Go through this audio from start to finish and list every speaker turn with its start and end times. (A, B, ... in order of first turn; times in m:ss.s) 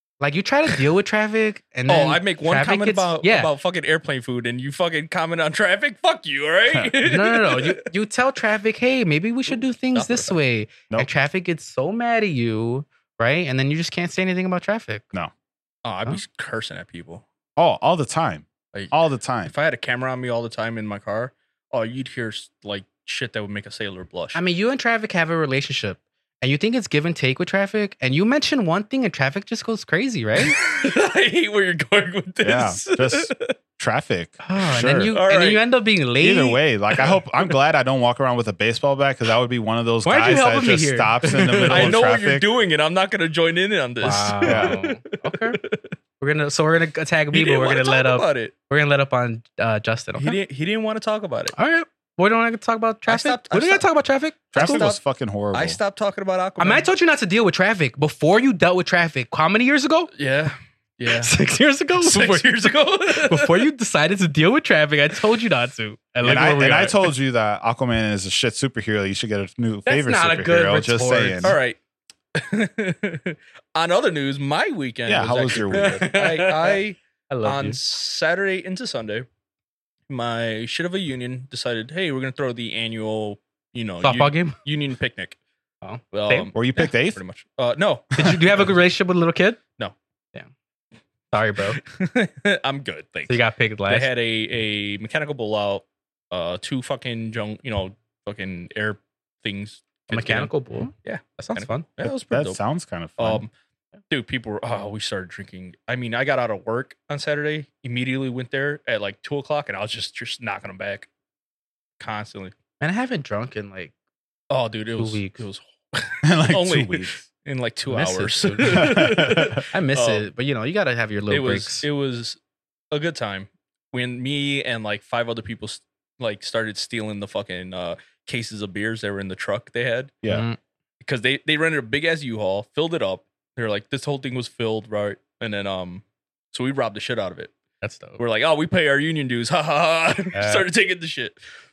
0:00.2-0:03.5 A
0:01.9-0:07.8 B
0:07.0-0:15.1 A
0:09.9-0:10.4 B
0:15.8-0:17.2 B
0:17.6-0:19.5 C
0:18.7-0:24.4 B
0:24.3-0:30.6 A
0:30.4-0:33.5 B
0:32.4-0:35.1 C
0:34.4-0:36.6 A
0:35.1-0:35.6 B
0:36.2-0:42.5 C
0:40.0-0:42.0 A
0:41.6-0:45.9 B
0:44.0-0:45.6 A
0:44.4-0:44.8 C
0:46.2-0:50.4 A
0:47.3-0:48.5 B
0:50.2-0:51.5 B
0:51.5-0:54.9 A
0:53.1-0:53.8 B
0:54.5-0:55.0 B
0:54.5-0:55.8 C
0:55.5-0:56.9 B
0:56.6-1:00.1 A
1:00.2-1:01.4 B
1:01.1-1:07.1 A
1:02.0-1:03.7 B
1:06.2-1:11.6 C
1:09.8-1:11.6 A
1:11.4-1:11.8 B
1:12.3-1:19.3 B
1:15.0-1:16.0 C
1:15.7-1:16.8 A
1:17.3-1:17.8 A
1:20.1-1:25.4 B
1:24.0-1:24.6 A
1:25.8-1:26.5 A
1:26.1-1:28.7 B
1:26.5-1:27.2 C
1:28.2-1:29.6 A
1:31.3-1:31.8 A
1:31.8-1:40.5 B
1:33.3-1:34.1 A
1:40.1-1:41.9 A
1:41.0-1:42.6 B
1:42.0-1:43.4 C
1:43.2-1:43.5 B
1:44.1-1:51.1 B
1:52.0-1:52.5 B
1:52.8-1:53.9 A
1:54.5-2:00.3 B
1:55.0-1:55.4 A
1:56.2-1:57.3 C
1:57.9-2:01.8 A
1:58.6-1:59.6 C
2:01.3-2:02.4 B
2:02.9-2:10.2 B
2:10.3-2:10.6 A
2:11.0-2:17.5 B
2:17.8-2:18.2 A
2:18.2-2:21.4 B
2:20.3-2:20.7 A